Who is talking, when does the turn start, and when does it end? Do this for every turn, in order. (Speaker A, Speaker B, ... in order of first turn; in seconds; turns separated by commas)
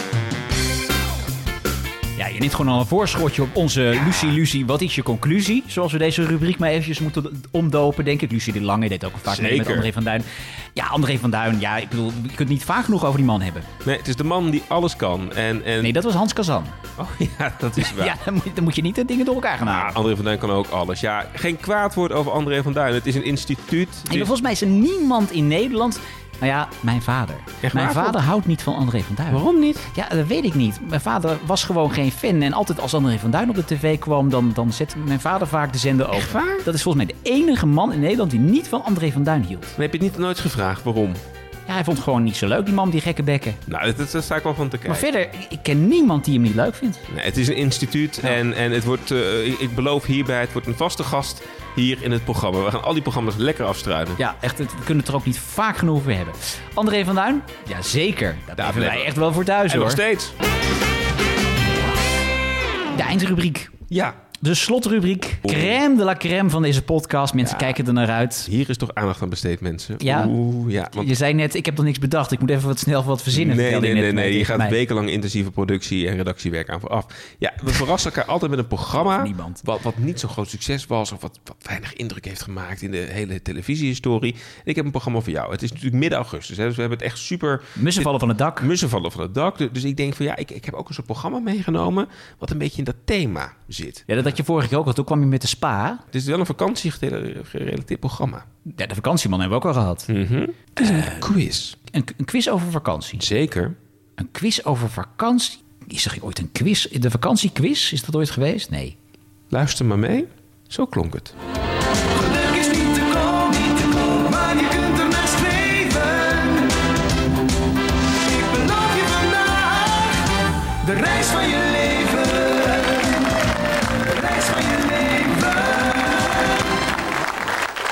Speaker A: 2.2-13.7, Speaker B: 9.2-9.9, Speaker B: 13.8-16.0, Speaker A: 15.8-16.8, Speaker B: 17.0-18.2, Speaker A: 17.8-20.0, Speaker B: 19.6-24.3, Speaker A: 24.1-39.8, Speaker B: 27.6-28.2, Speaker B: 29.3-29.9, Speaker B: 36.1-36.6, Speaker B: 39.8-41.2, Speaker A: 41.7-43.6, Speaker B: 43.7-45.1, Speaker A: 44.9-47.0, Speaker B: 47.1-54.2, Speaker A: 54.2-60.0, Speaker B: 58.6-59.1, Speaker B: 59.7-60.3, Speaker A: 62.9-63.7, Speaker B: 63.9-64.2, Speaker A: 64.4-68.5, Speaker B: 65.4-65.8, Speaker B: 67.4-67.8, Speaker B: 68.5-71.1, Speaker A: 70.0-70.3, Speaker A: 70.9-74.8, Speaker B: 73.3-88.1, Speaker A: 78.9-79.6, Speaker A: 87.8-88.7, Speaker B: 88.6-94.1, Speaker A: 94.1-96.0, Speaker B: 96.1-98.5, Speaker A: 98.7-100.1, Speaker B: 100.1-101.8, Speaker A: 100.8-101.3, Speaker A: 101.9-103.2, Speaker B: 103.2-103.8, Speaker A: 104.2-108.9, Speaker B: 109.5-111.3, Speaker C: 112.1-116.7, Speaker C: 118.2-120.2, Speaker C: 120.8-123.3, Speaker C: 124.0-126.5